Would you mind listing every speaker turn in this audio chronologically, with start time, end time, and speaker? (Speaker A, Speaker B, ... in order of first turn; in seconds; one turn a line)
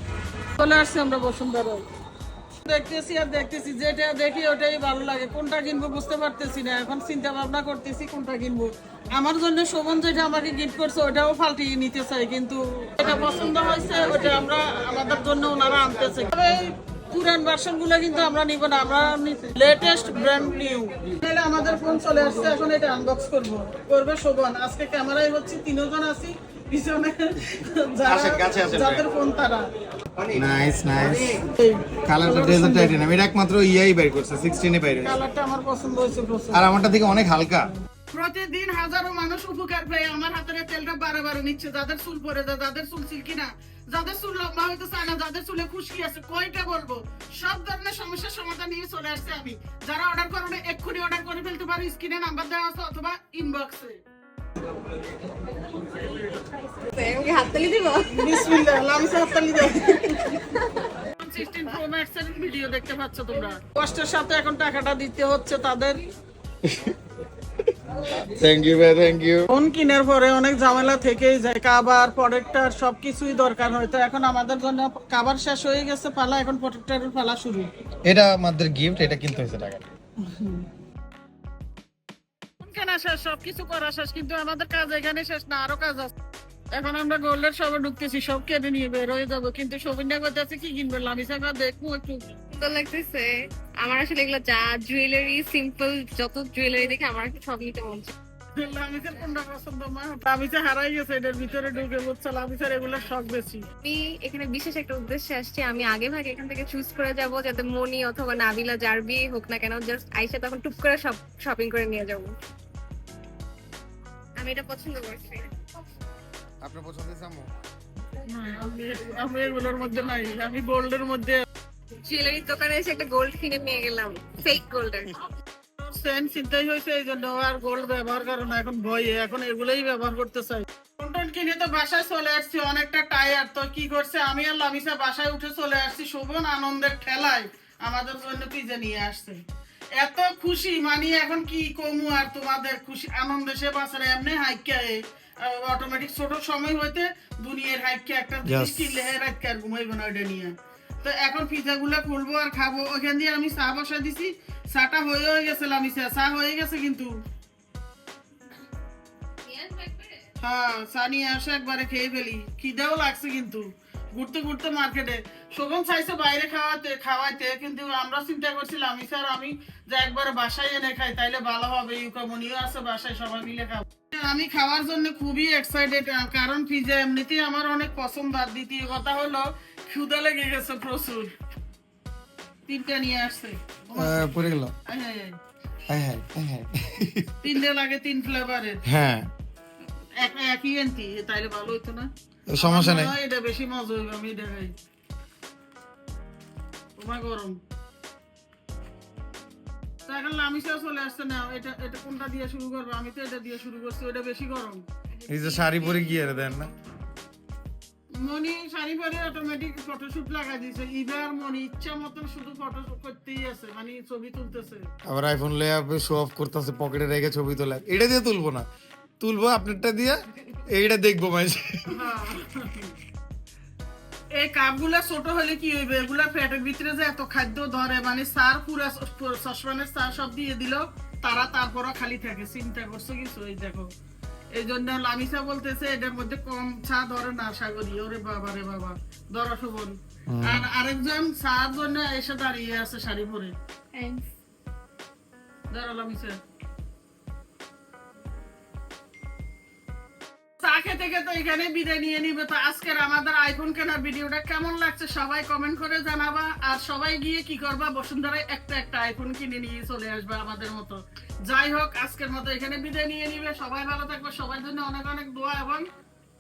Speaker A: 0.5-1.8
Speaker A: 2.6-29.6
Speaker B: 28.1-29.0
Speaker B: 30.3-31.4
Speaker A: 31.5-32.9
Speaker B: 32.0-35.1
Speaker A: 35.0-36.7
Speaker B: 36.5-37.7
Speaker A: 38.1-54.0
Speaker C: 56.7-58.5
Speaker A: 58.1-60.4
Speaker C: 60.4-60.8
Speaker A: 61.1-66.0
Speaker B: 66.6-67.0
Speaker B: 67.7-69.5
Speaker A: 69.5-77.7
Speaker B: 78.1-79.8
Speaker A: 80.3-80.6
Speaker A: 82.6-86.1
Speaker A: 86.7-92.2
Speaker C: 92.5-98.1
Speaker A: 98.5-103.7
Speaker C: 103.8-112.3
Speaker C: 114.4-115.5
Speaker B: 116.6-117.5
Speaker A: 118.3-121.4
Speaker C: 122.0-125.2
Speaker A: 125.8-139.4
Speaker A: 139.9-157.1
Speaker B: 148.4-149.1
Speaker C: 159.4-160.1
Speaker A: 160.4-181.3
Speaker A: 182.7-185.3
Speaker B: 183.9-184.7
Speaker B: 185.9-187.3
Speaker A: 187.4-188.8
Speaker B: 188.8-189.3
Speaker A: 190.2-194.7
Speaker B: 192.5-193.1
Speaker A: 197.0-197.6
Speaker A: 200.1-204.8
Speaker C: 205.2-206.1
Speaker B: 205.3-206.7
Speaker A: 208.2-214.9
Speaker B: 215.1-218.7
Speaker B: 219.2-222.1
Speaker A: 221.9-222.9
Speaker A: 224.3-233.9
Speaker A: 234.5-243.5
Speaker B: 240.3-240.7
Speaker C: 243.9-244.2
Speaker A: 245.7-246.4
Speaker A: 250.6-265.9